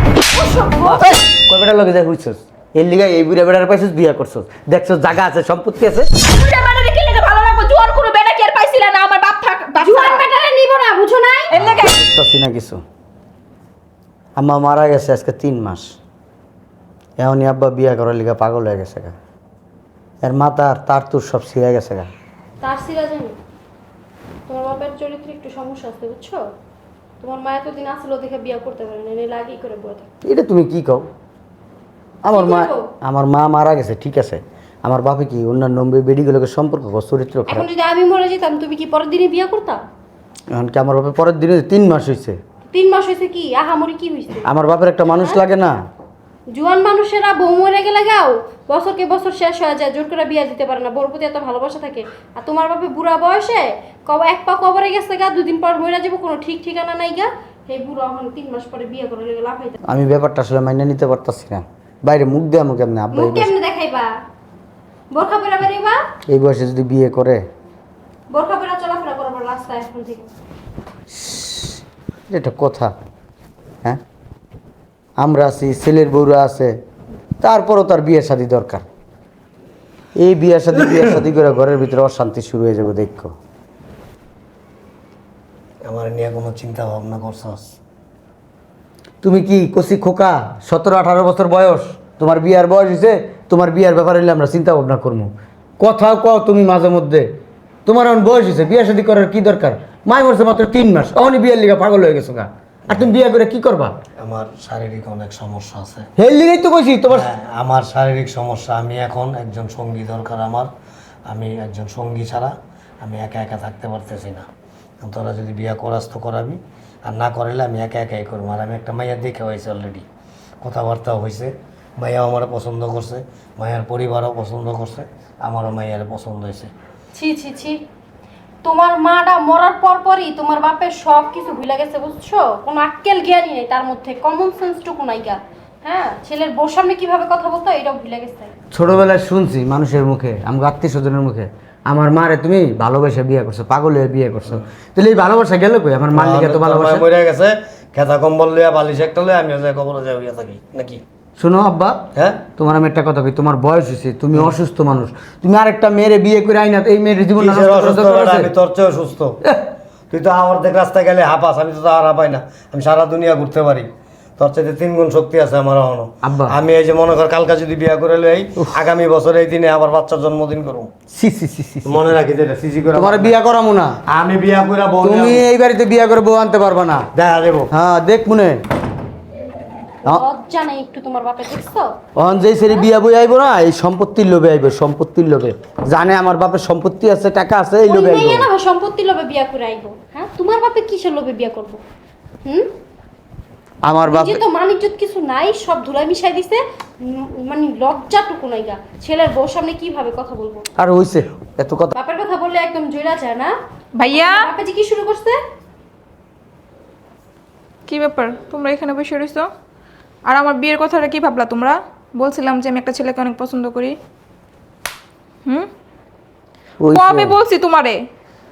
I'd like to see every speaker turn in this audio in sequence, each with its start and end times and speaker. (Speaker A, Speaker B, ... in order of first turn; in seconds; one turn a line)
Speaker A: 0.3-1.0
Speaker B: 0.8-1.1
Speaker C: 1.0-6.1
Speaker A: 6.2-10.2
Speaker D: 9.8-11.5
Speaker A: 11.5-12.0
Speaker C: 11.6-12.8
Speaker C: 14.3-15.9
Speaker C: 17.2-19.1
Speaker C: 20.2-22.1
Speaker D: 22.6-23.4
Speaker D: 24.5-26.4
Speaker D: 27.2-30.0
Speaker C: 30.2-31.1
Speaker C: 32.2-37.7
Speaker D: 32.3-32.9
Speaker D: 37.5-39.8
Speaker C: 40.5-42.4
Speaker D: 42.7-44.5
Speaker C: 44.4-45.8
Speaker D: 46.5-59.8
Speaker C: 59.9-63.5
Speaker D: 63.1-64.1
Speaker D: 65.1-66.0
Speaker C: 66.3-67.4
Speaker D: 68.3-70.3
Speaker C: 71.1-72.9
Speaker C: 75.2-76.7
Speaker C: 77.4-78.8
Speaker C: 80.2-83.3
Speaker B: 85.8-87.8
Speaker C: 89.2-97.3
Speaker C: 97.8-104.0
Speaker B: 104.2-106.1
Speaker C: 106.2-107.3
Speaker B: 107.1-110.7
Speaker B: 111.3-114.5
Speaker B: 115.0-120.0
Speaker B: 120.6-126.7
Speaker D: 127.1-127.8
Speaker D: 128.6-138.5
Speaker C: 138.7-147.0
Speaker B: 146.1-151.0
Speaker C: 151.4-158.5
Speaker B: 152.2-152.4
Speaker B: 157.4-159.4
Speaker B: 160.1-170.9
Speaker C: 166.2-166.6
Speaker C: 171.1-172.1
Speaker B: 171.8-173.4
Speaker C: 172.9-174.0
Speaker B: 174.1-175.4
Speaker C: 175.0-177.1
Speaker B: 177.1-177.7
Speaker C: 177.7-178.6
Speaker D: 180.1-181.9
Speaker C: 182.2-188.5
Speaker D: 187.8-191.8
Speaker C: 193.8-194.4
Speaker D: 194.1-200.6
Speaker C: 200.8-201.9
Speaker D: 201.9-203.5
Speaker A: 203.9-204.4
Speaker D: 204.1-205.4
Speaker A: 207.9-209.5
Speaker A: 210.3-214.0
Speaker C: 216.8-217.4
Speaker A: 216.9-218.0